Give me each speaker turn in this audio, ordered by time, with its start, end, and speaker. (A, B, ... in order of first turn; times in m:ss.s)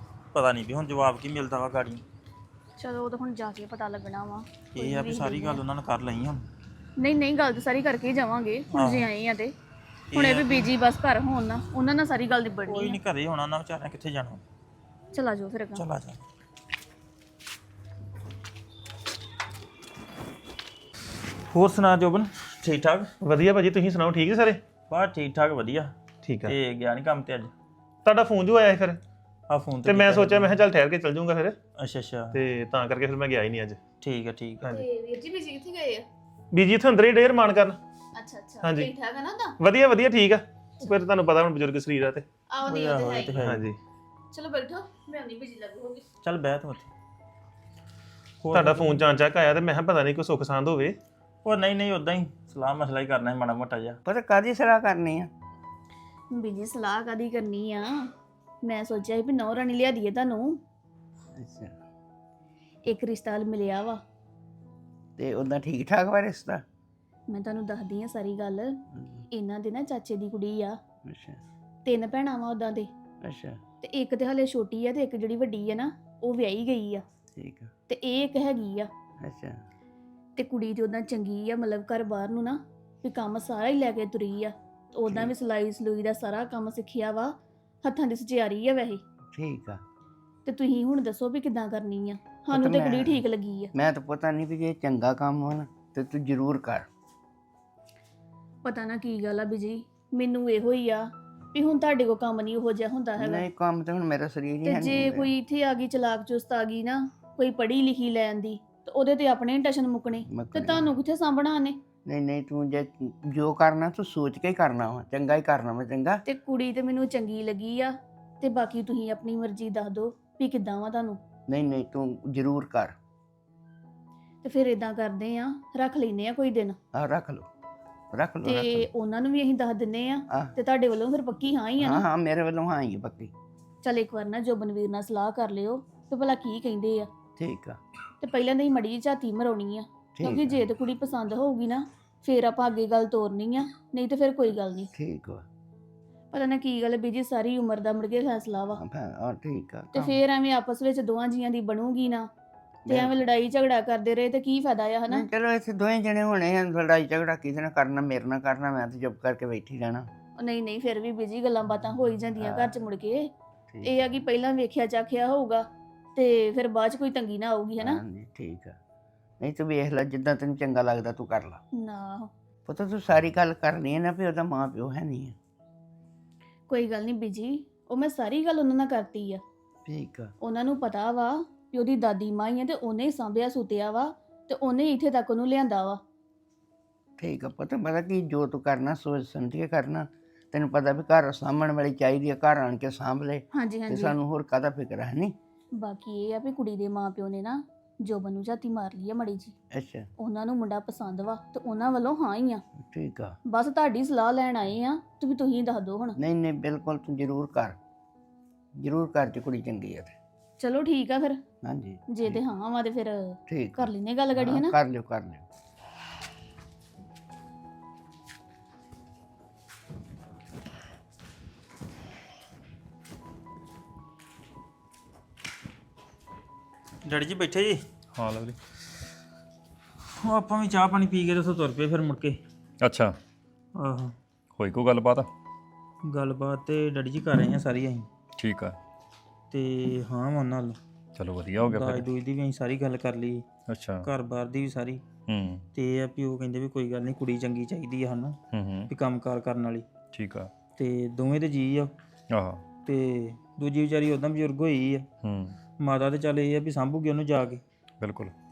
0:00.3-0:02.0 A
0:02.8-0:05.6 B
0:04.7-0:06.4 A
0:07.0-0:09.5 B
0:08.7-0:09.1 A
0:10.1-0:10.7 A
0:10.1-0:13.0 B
0:12.7-0:14.4 A
0:15.1-0:15.9 B
0:15.8-0:16.2 A
0:21.5-0:23.1 A
0:23.2-0:24.6 C
0:24.9-0:27.5 A
0:26.3-0:26.6 C
0:28.0-0:29.0 C
0:29.5-0:30.6 A
0:29.8-0:31.6 C
0:31.8-0:32.4 A
0:32.3-0:33.8 C
0:34.0-0:34.7 A
0:34.7-0:36.1 B
0:36.5-0:37.8 C
0:38.2-0:39.6 B
0:38.6-0:38.9 C
0:39.6-0:42.3 C
0:42.5-0:43.4 B
0:42.7-0:43.7 A
0:43.1-0:43.8 C
0:44.3-0:46.1 B
0:46.2-0:46.9 A
0:48.4-0:49.0 A
0:48.5-0:51.0 C
0:51.4-0:54.0 A
0:54.1-0:55.3 D
0:56.3-0:58.1 B
0:58.6-1:00.6 B
1:01.4-1:01.7 D
1:02.9-1:04.0 B
1:05.2-1:06.6 D
1:07.3-1:10.8 B
1:08.9-1:09.2 D
1:11.1-1:11.4 D
1:11.8-1:12.9 B
1:13.2-1:13.6 D
1:13.8-1:17.0 B
1:17.4-1:17.7 D
1:17.9-1:18.9 B
1:19.2-1:19.6 D
1:20.4-1:29.0 B
1:25.1-1:25.3 D
1:29.3-1:29.8 D
1:30.5-1:33.7 B
1:32.5-1:33.2 D
1:33.8-1:36.9 D
1:38.6-1:43.5 B
1:43.2-1:45.3 D
1:44.6-1:51.8 B
1:50.3-1:50.9 D
1:52.1-1:56.2 D
1:56.3-2:01.2 B
2:01.5-2:02.9 D
2:04.4-2:06.8 B
2:06.9-2:07.5 D
2:08.1-2:08.9 D
2:08.4-2:12.0 B
2:11.8-2:13.3 D
2:13.8-2:17.1 B
2:17.4-2:17.8 D
2:18.2-2:24.9 B
2:20.2-2:20.6 D
2:25.0-2:25.4 D
2:26.3-2:28.8 B
2:28.8-2:30.2 D
2:29.9-2:32.3 B
2:32.9-2:33.2 D
2:32.9-2:35.3 B
2:35.1-2:40.1 D
2:40.4-2:43.3 B
2:42.4-2:42.8 D
2:43.7-2:44.2 D
2:43.8-2:48.0 B
2:47.8-2:48.8 D
2:49.4-2:51.6 D
2:51.8-2:52.3 B
2:52.7-2:55.4 D
2:56.7-2:59.4 B
2:59.9-3:00.3 D
3:00.4-3:06.0 B
3:07.2-3:15.4 D
3:13.6-3:14.2 B
3:15.8-3:19.6 B
3:19.7-3:20.1 D
3:20.2-3:22.6 B
3:22.9-3:23.4 D
3:23.5-3:26.2 B
3:26.2-3:27.8 D
3:28.8-3:30.1 D
3:30.6-3:31.4 B
3:31.6-3:32.4 D
3:32.1-3:34.8 B
3:33.5-3:35.4 D
3:47.0-3:47.8 A
3:48.1-3:48.6 E
3:50.2-3:52.4 A
3:52.8-3:53.1 E
3:53.8-3:54.1 A
3:54.6-3:55.3 E
3:56.1-3:58.1 A
3:58.4-3:58.8 E
3:59.5-4:00.8 A
4:01.2-4:02.1 E
4:01.6-4:03.4 A
4:03.7-4:04.1 E
4:04.0-4:05.0 A
4:05.3-4:05.7 E
4:05.7-4:08.4 A
4:08.5-4:08.9 E
4:08.9-4:09.9 A
4:10.1-4:10.5 E
4:10.8-4:11.9 A
4:12.3-4:12.6 E
4:12.8-4:15.1 A
4:15.2-4:15.6 E
4:15.8-4:17.6 A
4:18.0-4:18.3 E